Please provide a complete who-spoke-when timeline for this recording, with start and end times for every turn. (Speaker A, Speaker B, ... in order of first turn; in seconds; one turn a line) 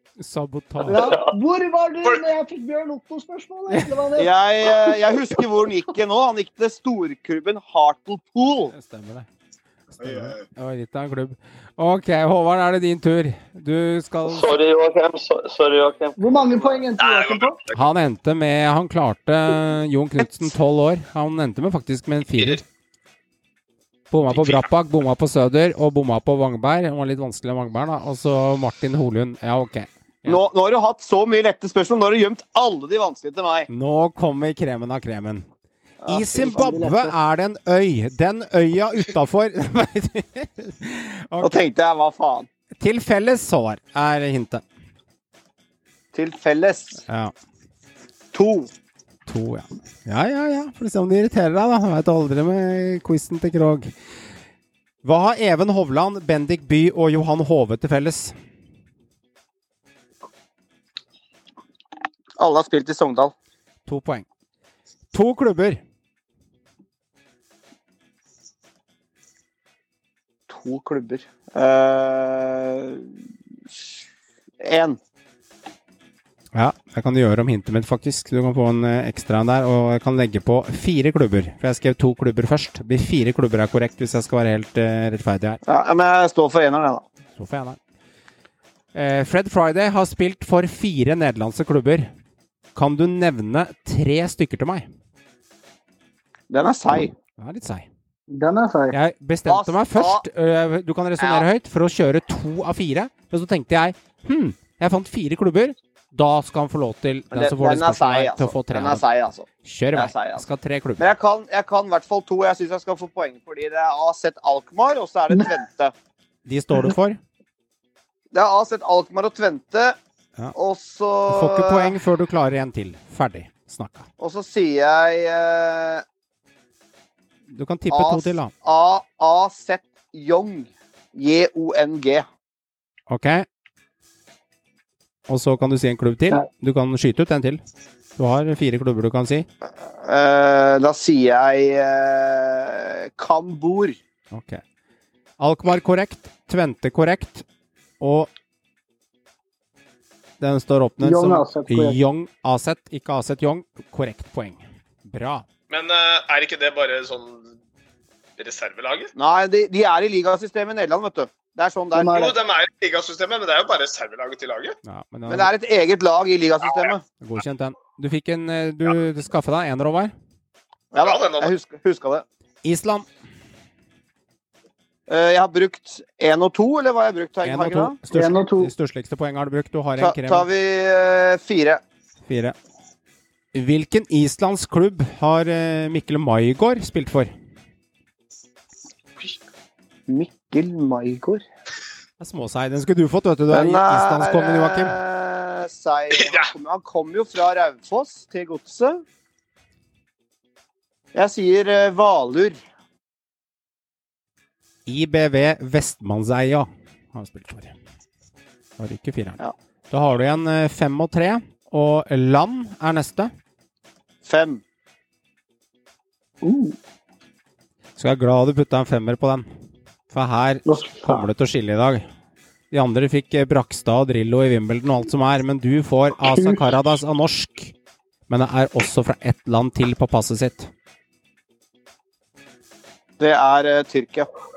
Speaker A: 0.2-1.1
Speaker B: 0.8-5.0
Speaker C: 0.9-1.3
Speaker D: 4.2-8.7
Speaker A: 8.7-9.3
Speaker A: 10.0-14.6
Speaker C: 14.3-16.8
Speaker B: 16.2-17.6
Speaker E: 17.0-17.8
Speaker A: 17.7-22.6
Speaker A: 24.1-30.4
Speaker E: 24.3-24.7
Speaker D: 30.3-33.7
Speaker A: 33.7-35.5
Speaker B: 36.0-37.1
Speaker A: 36.1-41.5
Speaker D: 41.4-42.5
Speaker A: 42.8-44.6
Speaker D: 46.1-47.0
Speaker A: 47.1-47.3
Speaker D: 48.3-48.7
Speaker A: 49.3-53.9
Speaker A: 55.0-58.4
Speaker D: 62.4-63.3
Speaker A: 63.9-64.3
Speaker A: 65.1-65.8
Speaker D: 70.5-73.1
Speaker D: 74.6-75.0
Speaker A: 76.5-85.6
Speaker D: 85.7-87.0
Speaker A: 87.3-87.8
Speaker A: 88.9-92.1
Speaker A: 92.7-94.9
Speaker D: 96.5-97.1
Speaker A: 97.4-97.9
Speaker B: 98.3-99.0
Speaker A: 98.9-109.0
Speaker D: 99.5-100.3
Speaker D: 101.2-101.5
Speaker D: 107.3-110.4
Speaker A: 109.6-111.0
Speaker D: 111.0-115.9
Speaker A: 116.5-117.2
Speaker D: 118.3-120.0
Speaker D: 120.5-121.9
Speaker A: 121.3-124.1
Speaker D: 124.2-126.0
Speaker A: 127.5-128.5
Speaker D: 127.9-132.3
Speaker A: 133.1-133.4
Speaker A: 135.3-137.6
Speaker A: 138.2-139.5
Speaker D: 140.0-144.0
Speaker A: 144.3-144.6
Speaker A: 145.4-147.4
Speaker A: 148.0-148.3
Speaker A: 150.4-155.4
Speaker B: 151.0-152.0
Speaker E: 155.7-157.6
Speaker E: 158.4-159.1
Speaker D: 159.2-162.3
Speaker B: 161.9-162.3
Speaker E: 162.1-164.8
Speaker A: 164.8-165.5
Speaker D: 165.3-167.0
Speaker A: 167.2-170.1
Speaker D: 170.9-172.2
Speaker E: 170.9-171.5
Speaker A: 172.6-173.1
Speaker D: 175.1-178.0
Speaker A: 177.4-180.5
Speaker B: 178.1-178.7
Speaker D: 180.0-181.8
Speaker A: 182.3-182.6
Speaker A: 183.6-187.3
Speaker D: 190.1-191.4
Speaker A: 192.2-195.0
Speaker D: 193.5-199.0
Speaker E: 196.1-196.5
Speaker D: 201.1-202.6
Speaker A: 204.8-207.7
Speaker A: 208.8-209.4
Speaker A: 209.9-213.3
Speaker D: 214.2-214.6
Speaker B: 216.4-216.8
Speaker A: 218.0-219.5
Speaker A: 220.1-222.1
Speaker B: 220.7-221.3
Speaker A: 222.7-227.7
Speaker B: 226.3-226.6
Speaker A: 228.3-230.7
Speaker D: 233.2-234.3